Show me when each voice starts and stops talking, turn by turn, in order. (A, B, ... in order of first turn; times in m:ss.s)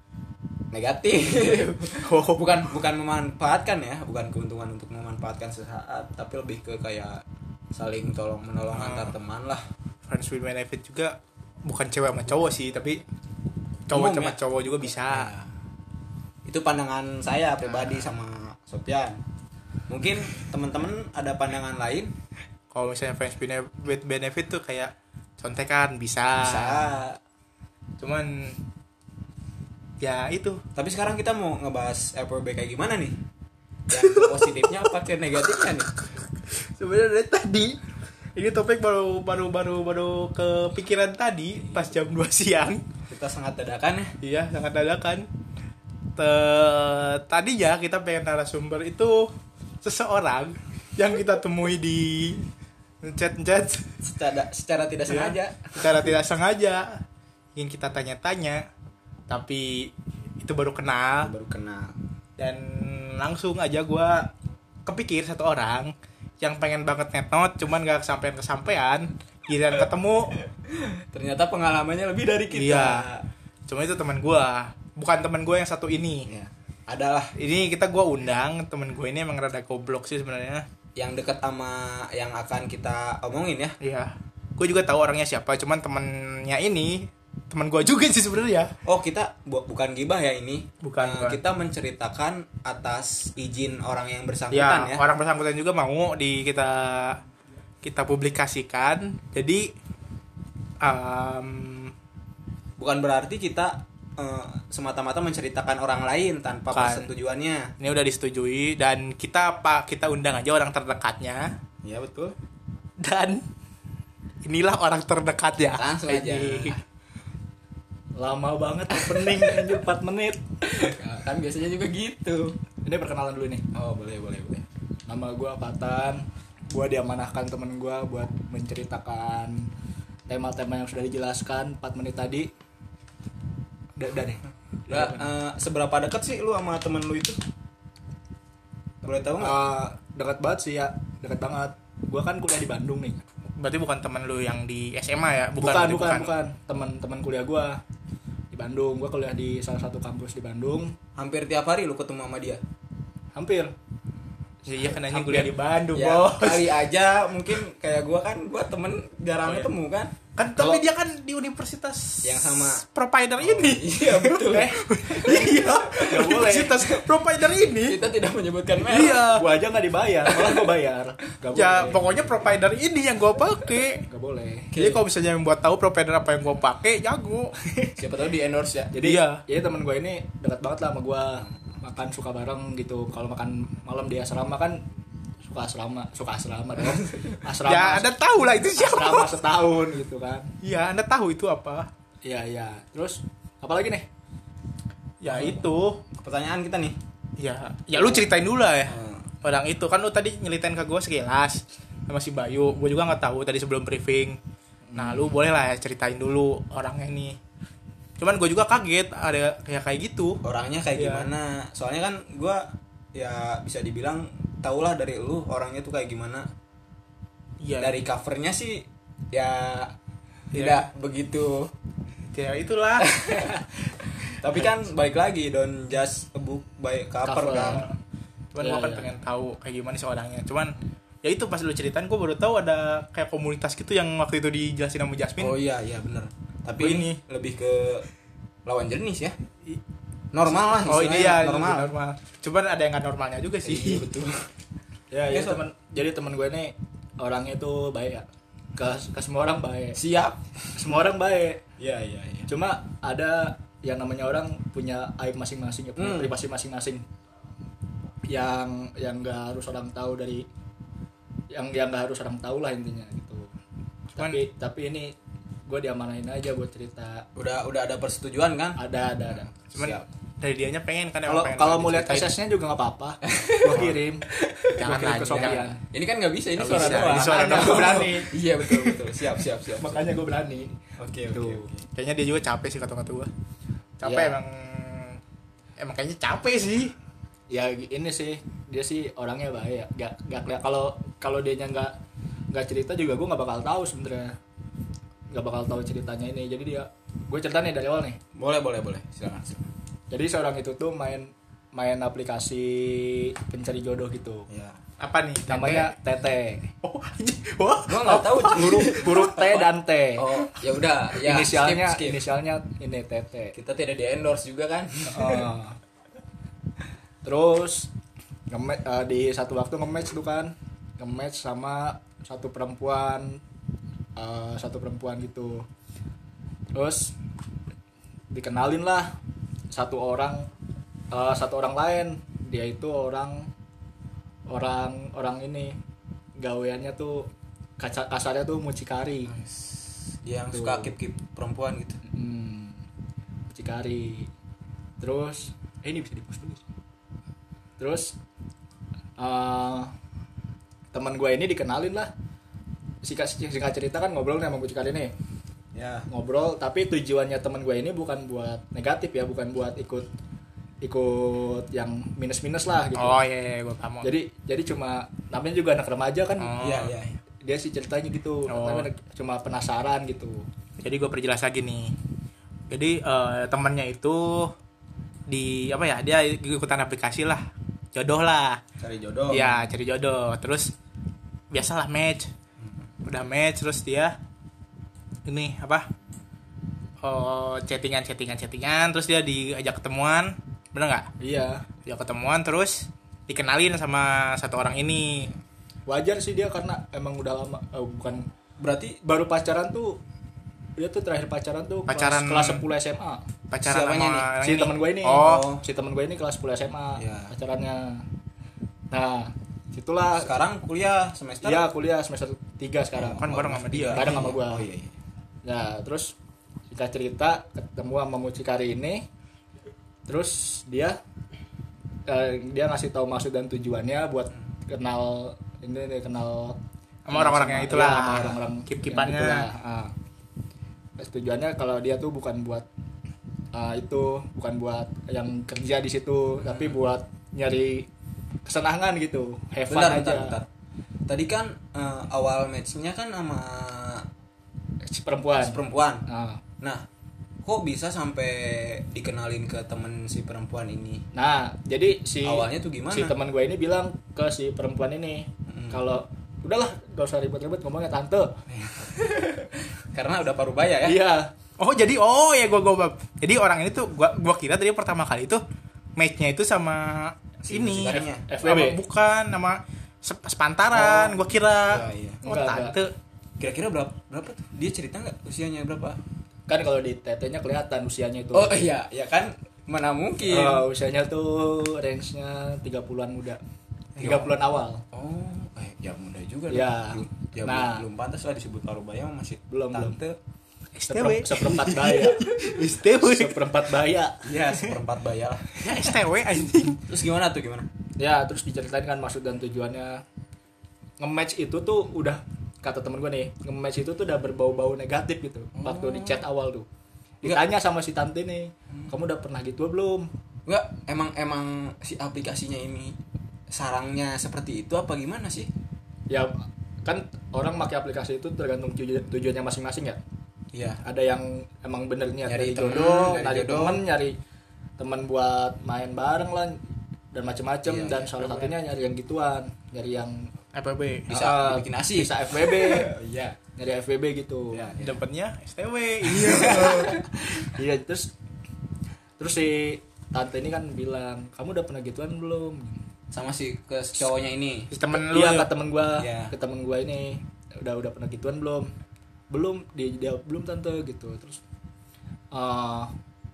0:00.7-0:09.6 A
0:01.9-0:02.7 B
0:08.7-0:09.2 B
0:10.1-0:13.0 B
0:13.9-0:15.3 B
0:13.9-0:14.4 A
0:14.9-0:15.5 A
0:16.4-0:19.2 A
0:19.9-0:22.1 A
0:22.7-0:27.0 B
0:26.4-0:27.2 A
0:28.0-0:28.6 B
0:30.0-0:30.6 B
0:30.8-0:33.2 A
0:33.9-0:35.9 A
0:33.9-0:34.9 B
0:36.5-0:37.8 B
0:38.4-0:42.8 B
0:43.1-0:44.2 A
0:44.2-0:45.3 B
0:46.2-0:49.3 B
0:49.8-0:52.5 B
0:53.0-0:53.9 B
0:54.0-0:56.1 A
0:55.1-0:57.0 B
0:57.6-0:58.6 B
0:59.3-1:01.3 B
1:01.2-1:02.0 A
1:02.4-1:04.3 B
1:04.9-1:10.4 B
1:10.6-1:13.3 A
1:12.5-1:13.0 B
1:13.7-1:16.3 B
1:16.3-1:17.3 A
1:17.4-1:20.6 B
1:21.0-1:23.8 A
1:23.8-1:28.7 B
1:28.8-1:35.0 A
1:30.8-1:31.4 B
1:34.5-1:37.2 B
1:37.8-1:39.7 B
1:40.8-1:41.9 B
1:42.8-1:47.7 A
1:46.7-1:47.1 B
1:47.8-1:51.5 B
1:51.8-1:52.4 A
1:53.0-1:53.4 B
1:54.4-1:56.8 B
1:55.7-1:56.8 A
1:58.2-2:00.4 C
2:00.6-2:02.6 A
2:02.8-2:03.6 C
2:03.7-2:04.7 A
2:05.1-2:09.7 C
2:10.3-2:12.5 C
2:14.0-2:15.3 C
2:14.9-2:17.4 A
2:19.0-2:19.6 A
2:19.4-2:23.2 C
2:23.6-2:26.3 B
2:25.6-2:27.8 C
2:28.5-2:31.0 C
2:31.2-2:32.6 A
2:33.4-2:33.7 C
2:34.7-2:36.8 B
2:34.9-2:35.5 C
2:35.9-2:40.2 A
2:40.4-2:48.0 B
2:40.6-2:40.8 C
2:42.2-2:42.8 A
2:43.4-2:46.3 A
2:46.1-2:46.9 C
2:47.7-2:49.3 A
2:48.8-2:49.4 B
2:49.2-2:52.3 C
2:50.3-2:50.7 A
2:51.6-2:54.0 B
2:54.1-2:54.7 C
2:54.7-2:55.0 A
2:54.8-2:57.5 B
2:57.7-2:58.0 C
2:58.0-2:59.0 A
2:58.9-3:04.8 C
2:59.0-2:59.4 B
3:05.4-3:10.5 C
3:06.9-3:07.3 A
3:07.6-3:09.4 B
3:10.6-3:11.9 B
3:12.2-3:14.1 C
3:15.2-3:16.0 B
3:16.1-3:17.0 A
3:17.4-3:24.4 B
3:18.8-3:19.3 A
3:24.9-3:25.2 C
3:25.0-3:27.4 B
3:28.2-3:30.4 B
3:30.4-3:36.5 A
3:31.0-3:31.3 B
3:37.6-3:38.0 B
3:37.8-3:40.0 A
3:40.5-3:40.9 B
3:40.5-3:41.7 A
3:42.3-3:43.1 B
3:43.0-3:43.7 A
3:44.2-3:47.9 A
3:47.2-3:47.9 C
3:47.5-3:47.9 B
3:48.5-3:55.6 B
3:48.6-3:49.1 C
3:55.4-3:58.1 A
3:56.8-3:57.2 B
3:58.7-3:59.4 A
4:00.3-4:01.9 A
4:00.8-4:04.1 B
4:03.6-4:04.5 A
4:05.1-4:10.0 C
4:05.3-4:05.6 A
4:10.0-4:10.9 A
4:10.8-4:11.6 C
4:11.8-4:12.5 A
4:12.5-4:17.0 C
4:16.0-4:16.4 A
4:18.3-4:20.5 C
4:21.5-4:23.5 C
4:24.2-4:25.2 C
4:25.7-4:27.3 C
4:27.4-4:30.1 A
4:28.8-4:29.5 C
4:29.7-4:32.4 B
4:31.3-4:35.8 C
4:33.2-4:34.8 A
4:34.8-4:35.8 B
4:35.9-4:40.1 A
4:36.6-4:38.3 B
4:36.7-4:38.8 C
4:39.8-4:41.7 C
4:41.0-4:41.9 A
4:42.0-4:43.3 B
4:44.0-4:45.2 B
4:44.0-4:44.4 A
4:45.8-4:46.9 B
4:47.5-4:52.0 C
4:52.5-4:54.4 C
4:55.3-4:58.2 C
4:58.3-4:59.7 A
5:00.1-5:04.5 C
5:04.5-5:04.8 A
5:05.0-5:06.0 B
5:05.5-5:06.7 C
5:06.8-5:09.0 B
5:07.9-5:09.6 A
5:08.5-5:10.3 C
5:10.2-5:12.2 A
5:11.2-5:13.5 C
5:13.5-5:15.5 A
5:15.1-5:15.8 C
5:17.2-5:17.9 C
5:18.5-5:23.4 C
5:24.2-5:25.7 C
5:26.7-5:27.2 C
5:28.3-5:29.2 C
5:29.7-5:30.5 C
5:31.1-5:33.5 C
5:34.5-5:35.8 C
5:36.4-5:39.3 C
5:39.3-5:42.0 A
5:40.5-5:40.9 C
5:42.1-5:42.8 C
5:43.5-5:44.3 C
5:45.0-5:46.6 C
5:47.8-5:48.2 C
5:49.2-5:49.9 C
5:50.9-5:52.1 C
5:53.0-5:55.1 C
5:55.7-5:56.1 A
5:56.1-6:00.1 C
6:00.8-6:03.2 C
6:03.0-6:04.1 B
6:04.0-6:06.5 C
6:06.4-6:07.0 B
6:06.6-6:07.2 A
6:07.4-6:10.5 C
6:08.5-6:08.9 B
6:10.8-6:11.9 B
6:12.7-6:14.5 B
6:15.3-6:18.6 B
6:18.8-6:19.6 A
6:19.3-6:20.7 B
6:21.5-6:22.3 B
6:22.6-6:22.9 A
6:23.0-6:24.1 B
6:25.3-6:25.8 B
6:27.0-6:31.1 B
6:31.2-6:31.6 C
6:31.9-6:35.3 B
6:35.9-6:38.3 C
6:38.6-6:39.0 A
6:39.0-6:40.0 C
6:40.8-6:43.2 C
6:41.9-6:42.6 B
6:43.5-6:45.5 B
6:43.6-6:44.4 A
6:44.4-6:48.1 C
6:45.2-6:45.6 A
6:47.0-6:47.3 A
6:48.9-6:50.3 C
6:50.2-6:51.7 A
6:51.4-6:54.7 C
6:53.0-6:55.0 A
6:53.2-6:54.2 B
6:55.4-6:56.2 C
6:56.7-6:59.1 C
7:00.1-7:01.0 C
7:02.1-7:06.6 C
7:07.1-7:09.5 B
7:07.1-7:09.9 C
7:11.0-7:12.7 C
7:13.5-7:17.9 C
7:16.4-7:16.8 A
7:18.5-7:20.4 C
7:19.7-7:20.5 A
7:21.1-7:24.1 A
7:24.9-7:26.4 C
7:25.4-7:26.0 A
7:26.6-7:26.9 A
7:27.4-7:31.0 A
7:31.1-7:38.4 C
7:32.2-7:33.1 A
7:35.5-7:35.8 A
7:38.5-7:41.0 A
7:40.8-7:41.3 C
7:41.6-7:45.4 B
7:46.0-7:52.9 B
7:47.4-7:48.2 A
7:48.3-7:48.8 C
7:50.8-7:52.2 A
7:52.2-7:52.8 C
7:53.4-7:56.0 A
7:56.5-7:58.6 C
7:58.3-8:00.7 A
8:00.3-8:03.4 C
8:04.0-8:04.3 B
8:04.0-8:04.8 C
8:04.9-8:10.2 A
8:06.5-8:07.8 C
8:09.5-8:10.0 C
8:10.8-8:13.5 B
8:10.9-8:14.7 C
8:14.2-8:15.5 A
8:15.6-8:16.8 B
8:16.9-8:17.7 A
8:18.0-8:20.0 C
8:21.0-8:26.7 C
8:25.6-8:26.2 A
8:27.2-8:30.1 C
8:30.5-8:33.0 A
8:33.5-8:35.5 A
8:36.8-8:40.0 C
8:40.5-8:40.8 A
8:40.8-8:44.2 C
8:42.3-8:43.8 A
8:44.8-8:46.6 C
8:47.1-8:50.3 C
8:47.6-8:48.6 A
8:50.5-8:51.1 B
8:51.1-8:52.9 C
8:51.1-8:53.4 A
8:53.6-8:54.6 C
8:54.5-8:55.0 A
8:54.8-8:57.0 B
8:56.0-8:57.0 A
8:57.3-8:58.1 C
8:59.2-9:02.8 C
9:03.1-9:04.7 A
9:04.7-9:05.5 B
9:04.9-9:08.7 C
9:06.0-9:06.3 A
9:09.3-9:11.4 C
9:12.3-9:12.9 C